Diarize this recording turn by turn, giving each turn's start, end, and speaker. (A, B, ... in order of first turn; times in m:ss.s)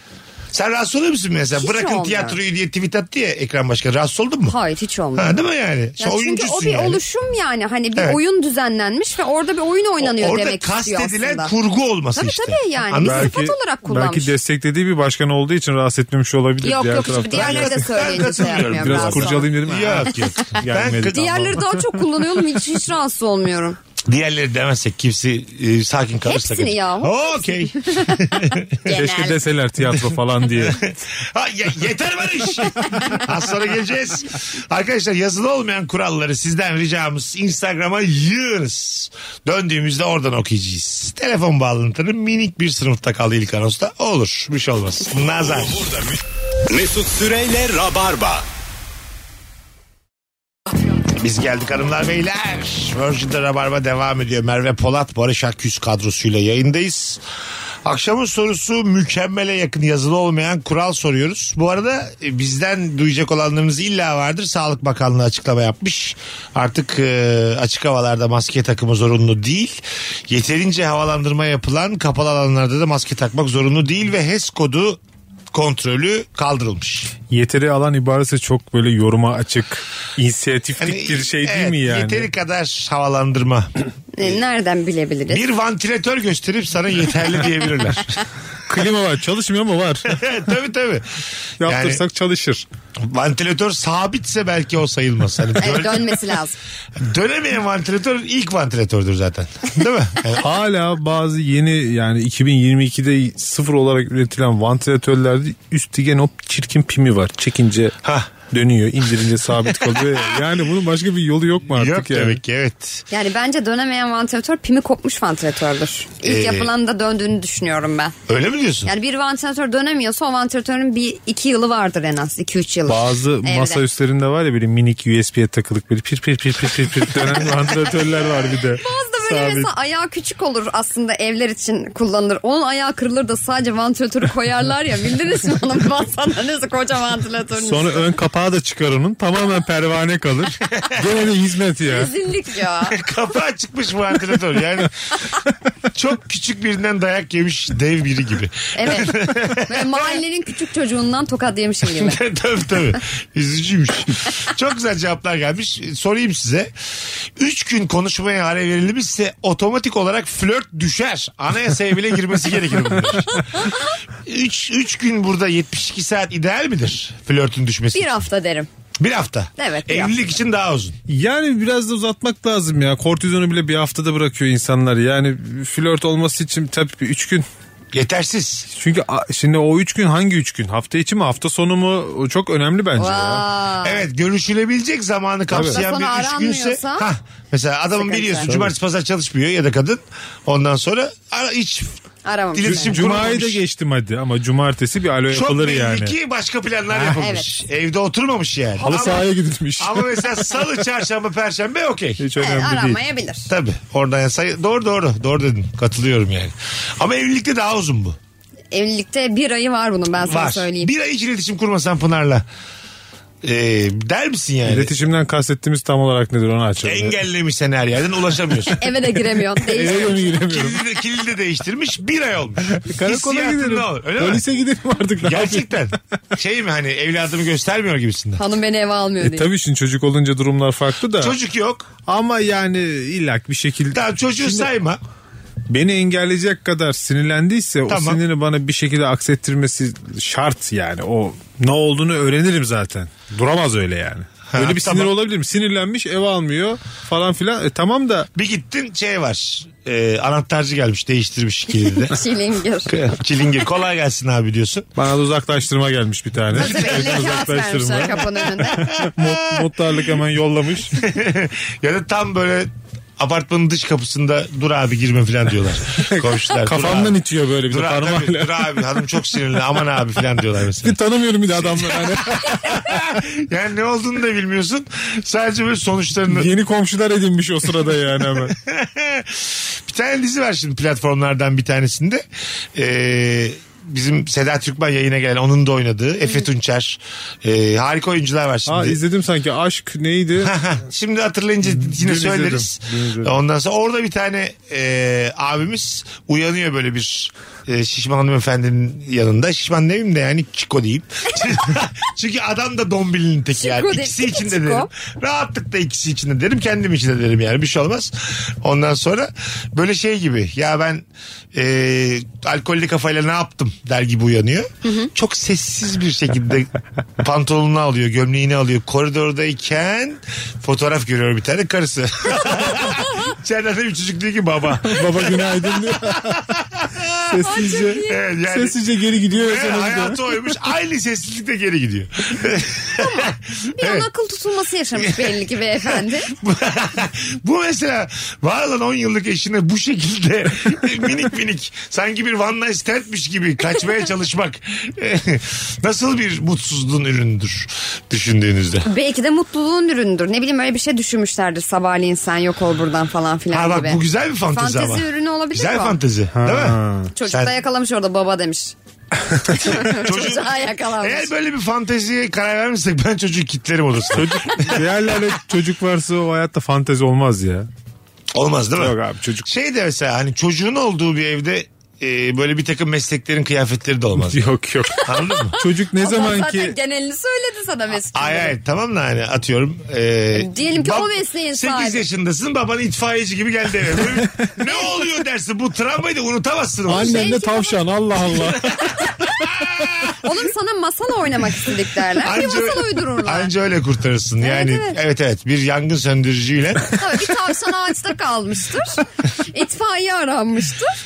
0:00.5-0:04.6 A
0:01.6-0:02.4 B
0:04.5-0:05.4 B
0:05.2-0:07.0 A
0:06.0-0:11.5 B
0:10.0-0:13.4 A
0:12.2-0:14.3 B
0:13.0-0:21.7 C
0:16.6-0:19.5 B
0:17.3-0:21.6 A
0:20.4-0:23.8 B
0:24.1-0:28.9 A
0:26.2-0:29.4 B
0:28.9-0:30.8 C
0:30.6-0:45.9 A
0:45.5-0:46.2 D
0:46.7-0:48.4 D
0:51.2-0:57.2 A
0:57.8-1:15.0 A
1:15.5-1:17.1 A
1:17.3-1:22.3 C
1:20.8-1:23.7 A
1:24.1-1:25.4 B
1:25.3-1:28.2 A
1:28.7-1:30.2 C
1:30.1-1:32.0 A
1:31.6-1:32.6 C
1:33.0-1:36.4 A
1:35.6-1:36.6 B
1:37.0-1:40.5 A
1:40.4-1:48.0 C
1:48.0-1:48.3 A
1:48.5-1:52.4 C
1:51.7-1:53.0 A
1:53.1-1:58.1 B
1:56.2-1:56.7 A
1:58.3-1:58.9 A
1:58.8-2:03.8 B
2:02.9-2:09.7 C
2:08.8-2:18.1 B
2:17.6-2:22.1 C
2:21.9-2:23.0 B
2:22.9-2:24.9 A
2:25.9-2:30.2 A
2:28.8-2:32.2 B
2:31.8-2:36.7 A
2:37.4-2:43.7 A
2:44.3-2:48.1 A
2:47.9-2:48.7 B
2:49.0-2:51.0 A
2:49.6-2:50.1 B
2:51.1-2:57.5 C
2:57.9-2:58.7 A
2:58.7-3:03.4 C
3:03.0-3:04.1 B
3:03.8-3:12.0 A
3:05.5-3:05.8 C
3:05.6-3:07.1 B
3:08.0-3:08.5 B
3:08.5-3:08.7 C
3:12.2-3:13.0 B
3:12.6-3:13.6 A
3:12.6-3:16.2 C
3:15.3-3:22.2 A
3:17.2-3:17.5 B
3:18.8-3:20.7 C
3:22.2-3:23.0 C
3:22.4-3:23.5 B
3:23.5-3:28.2 A
3:28.7-3:30.9 B
3:30.2-3:32.5 A
3:33.4-3:34.9 A
3:34.6-3:37.2 C
3:36.8-3:38.8 A
3:38.8-3:40.2 B
3:39.6-3:40.8 C
3:40.0-3:44.4 A
3:42.8-3:45.7 C
3:45.2-3:48.4 A
3:48.4-3:49.5 B
3:49.2-3:51.4 C
3:51.2-3:51.9 A
3:52.1-3:54.7 C
3:53.9-3:55.0 A
3:55.7-4:08.3 C
3:57.9-3:58.2 A
4:04.5-4:05.1 A
4:08.4-4:12.2 A
4:11.7-4:13.0 B
4:12.9-4:14.9 A
4:15.0-4:21.0 C
4:16.5-4:17.5 A
4:16.5-4:18.8 B
4:18.6-4:19.7 A
4:21.0-4:36.5 A
4:26.1-4:28.9 C
4:30.8-4:32.9 C
4:36.3-4:38.6 C
4:38.4-4:42.2 A
4:42.8-4:49.0 A
4:48.7-4:50.5 C
4:50.4-5:27.4 A
4:51.7-4:53.3 C
5:03.6-5:04.9 B
5:14.8-5:15.1 B
5:24.9-5:26.4 C
5:27.3-5:30.4 C
5:27.5-5:28.2 B
5:28.0-5:34.1 A
5:33.0-5:36.3 B
5:35.0-5:48.9 A
5:48.8-5:56.0 B
5:53.5-5:57.6 A
5:56.3-5:57.1 C
5:57.1-5:58.7 B
5:59.5-6:01.3 B
5:59.5-5:59.8 C
5:59.9-6:04.9 A
6:04.1-6:07.7 C
6:08.4-6:14.4 A
6:08.8-6:09.5 C
6:14.2-6:16.8 C
6:15.0-6:18.6 B
6:15.0-6:15.6 A
6:18.1-6:27.3 A
6:20.3-6:22.0 B
6:26.9-6:28.9 C
6:27.0-6:27.8 B
6:28.5-6:30.2 A
6:30.2-6:33.5 B
6:32.2-6:37.4 A
6:34.4-6:35.0 B
6:37.0-6:40.9 B